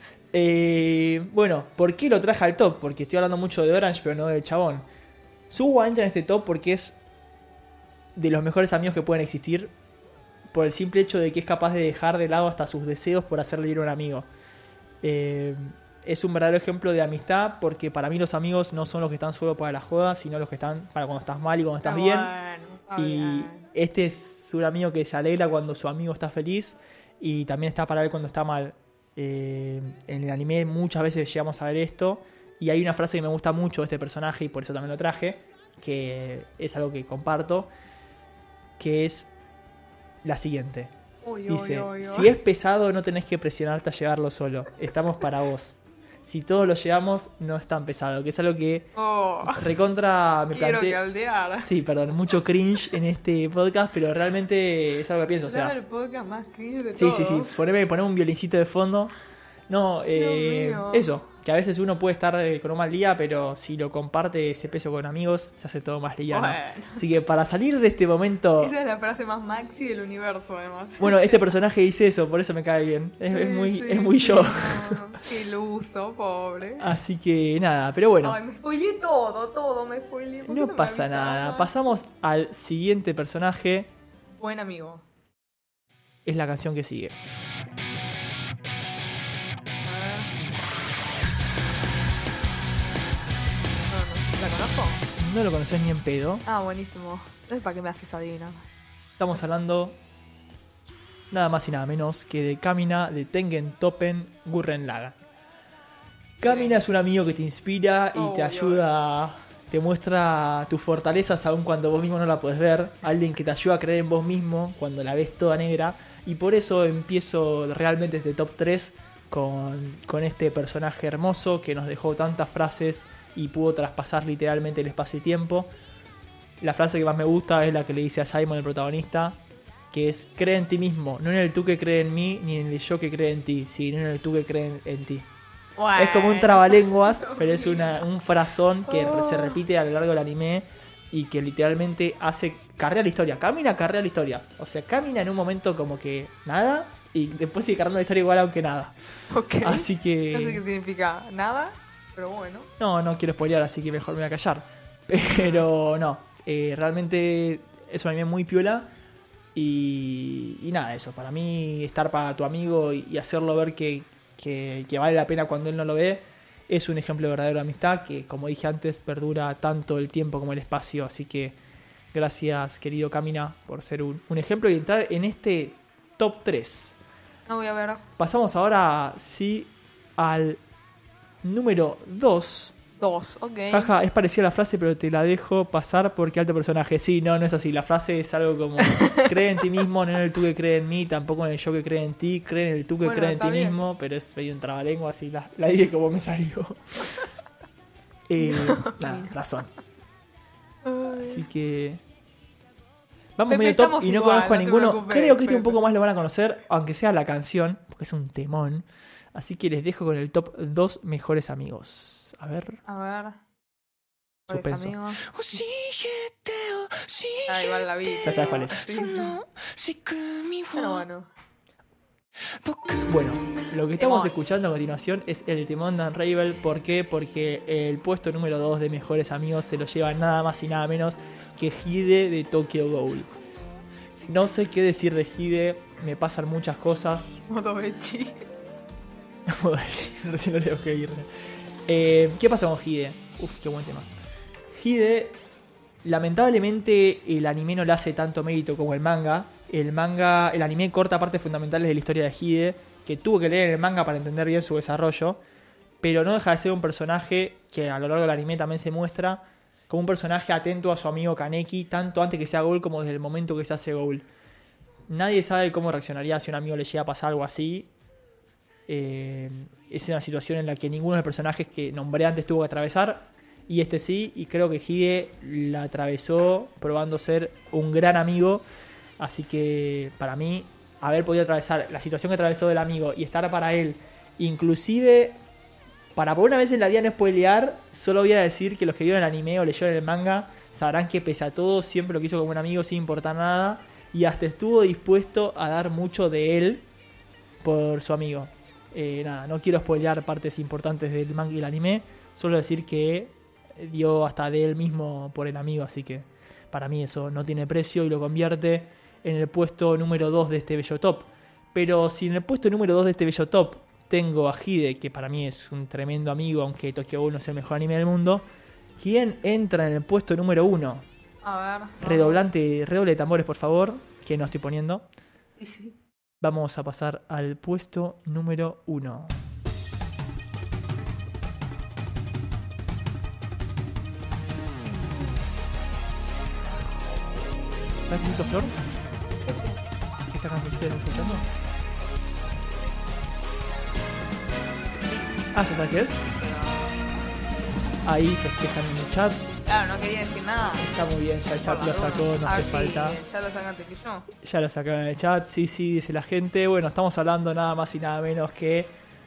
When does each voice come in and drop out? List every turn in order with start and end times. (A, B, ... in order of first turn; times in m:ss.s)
0:00.3-0:04.9 A
0:05.5-0:07.0 A
0:08.2-0:09.7 A
0:10.5-0:14.3 A
0:15.0-0:22.3 A
0:21.8-0:23.7 B
0:23.0-0:37.7 A
0:38.8-0:39.3 A
0:40.2-0:40.9 A
0:41.2-0:42.3 B
0:41.5-0:48.9 A
0:49.0-0:49.7 B
0:49.4-0:51.0 A
0:50.5-0:51.7 B
0:51.6-0:55.8 A
0:55.4-0:57.6 B
0:57.0-0:59.1 A
0:59.7-1:08.7 A
1:00.1-1:01.1 B
1:06.3-1:07.0 B
1:08.6-1:11.4 B
1:11.0-1:15.0 A
1:13.3-1:16.9 B
1:16.8-1:18.4 A
1:18.2-1:21.7 B
1:20.4-1:23.9 A
1:24.3-1:25.0 B
1:26.2-1:27.2 A
1:29.8-1:30.3 B
1:33.9-1:35.0 B
1:35.2-1:36.4 A
1:36.4-1:38.7 B
1:39.2-1:40.0 A
1:41.3-1:45.2 A
1:46.4-2:05.7 A
1:46.4-1:46.8 B
1:48.1-1:48.9 B
2:06.6-2:09.4 A
2:09.9-2:15.3 A
2:15.8-2:18.0 B
2:16.0-2:29.0 A
2:18.9-2:19.6 B
2:29.3-2:32.7 B
2:29.6-2:30.6 A
2:32.8-2:38.9 A
2:35.3-2:35.6 B
2:39.6-2:51.6 A
2:52.1-2:57.0 A
2:57.5-2:58.1 B
2:58.2-3:00.6 A
3:01.4-3:02.8 A
3:03.0-3:03.9 B
3:03.7-3:17.1 A
3:08.8-3:09.4 B
3:13.0-3:13.8 B
3:18.3-3:19.7 A
3:18.4-3:19.3 B
3:20.8-3:21.4 B
3:21.2-3:22.0 A
3:23.4-3:32.8 A
3:23.5-3:25.8 B
3:32.9-3:33.4 B
3:34.5-3:35.2 B
3:34.5-3:35.0 A
3:35.3-3:41.0 C
3:37.5-3:39.4 B
3:38.2-3:38.9 A
3:40.7-3:41.3 B
3:42.6-3:43.2 C
3:43.1-3:53.3 A
3:44.0-3:44.4 B
3:54.3-3:57.3 A
3:57.5-3:58.4 B
3:59.5-4:01.3 A
4:01.9-4:04.1 A
4:04.7-4:05.4 A
4:06.0-4:15.4 A
4:16.0-4:24.3 A
4:25.1-4:27.9 A
4:28.9-4:38.6 A
4:39.2-4:45.4 A
4:46.2-4:56.9 A
4:57.6-5:18.5 A
5:19.0-5:21.1 A
5:21.4-5:22.5 B
5:22.0-5:25.1 A
5:25.6-5:26.0 B
5:26.4-5:29.4 A
5:38.1-5:38.8 A
5:39.4-5:39.8 B
5:40.3-5:41.5 A
5:45.0-5:45.5 B
5:45.5-5:46.2 A
5:46.3-5:47.2 B
5:48.0-5:49.5 A
5:49.7-5:50.9 B
5:50.8-5:53.2 A
5:51.6-5:54.3 B
5:54.4-5:58.9 A